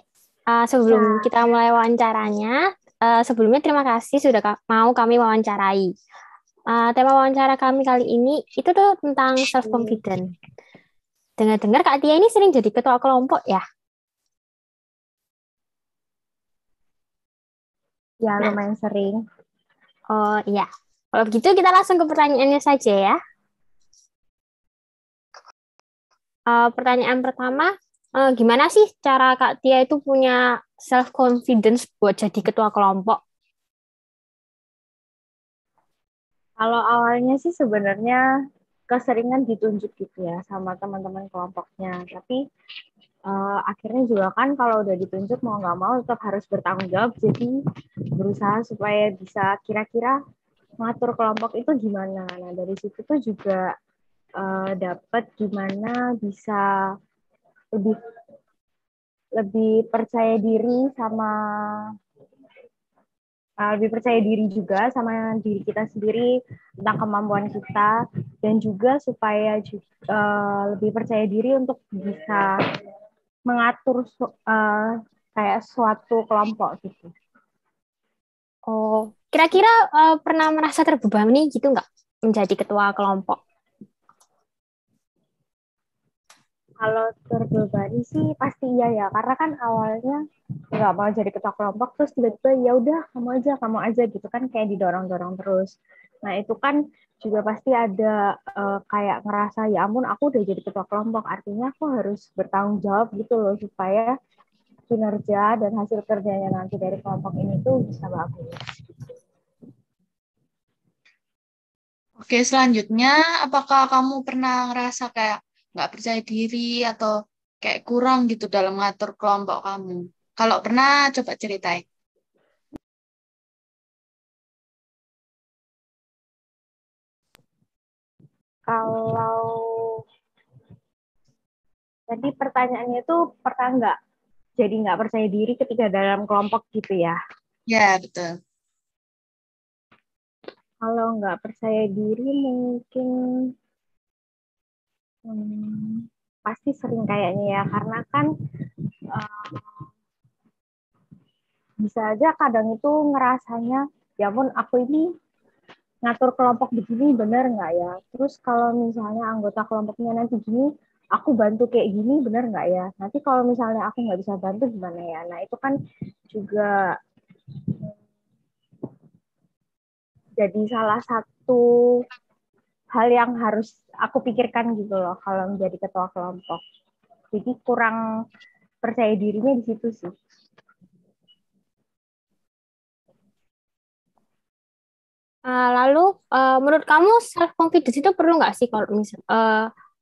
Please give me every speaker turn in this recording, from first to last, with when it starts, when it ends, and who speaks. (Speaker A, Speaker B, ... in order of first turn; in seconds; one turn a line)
Speaker A: 0.5-5.9
Speaker B: 0.9-1.3
Speaker A: 6.7-10.3
Speaker B: 9.6-9.9
Speaker A: 11.4-13.6
Speaker B: 18.2-19.2
Speaker A: 20.1-23.2
Speaker A: 26.5-33.2
Speaker B: 36.6-38.2
Speaker B: 38.9-42.4
Speaker B: 43.3-47.5
Speaker B: 48.2-50.1
Speaker B: 50.8-53.6
Speaker B: 54.4-56.6
Speaker B: 59.4-61.3
Speaker B: 63.6-66.3
Speaker B: 66.8-67.9
Speaker B: 68.4-72.5
Speaker B: 73.5-77.1
Speaker A: 78.7-83.4
Speaker B: 86.8-90.2
Speaker B: 90.8-95.7
Speaker B: 96.2-104.1
Speaker B: 104.9-108.5
Speaker C: 112.2-117.1
Speaker C: 117.6-121.8
Speaker B: 128.7-129.9
Speaker B: 132.1-133.9
Speaker B: 134.6-137.2
Speaker C: 137.7-138.3
Speaker B: 140.8-143.1
Speaker B: 145.3-148.3
Speaker B: 149.2-149.7
Speaker B: 151.8-155.1
Speaker B: 156.0-165.7
Speaker B: 166.3-166.7
Speaker B: 170.4-171.6
Speaker B: 172.9-176.6
Speaker B: 177.3-178.0
Speaker B: 178.8-180.1
Speaker A: 185.5-189.7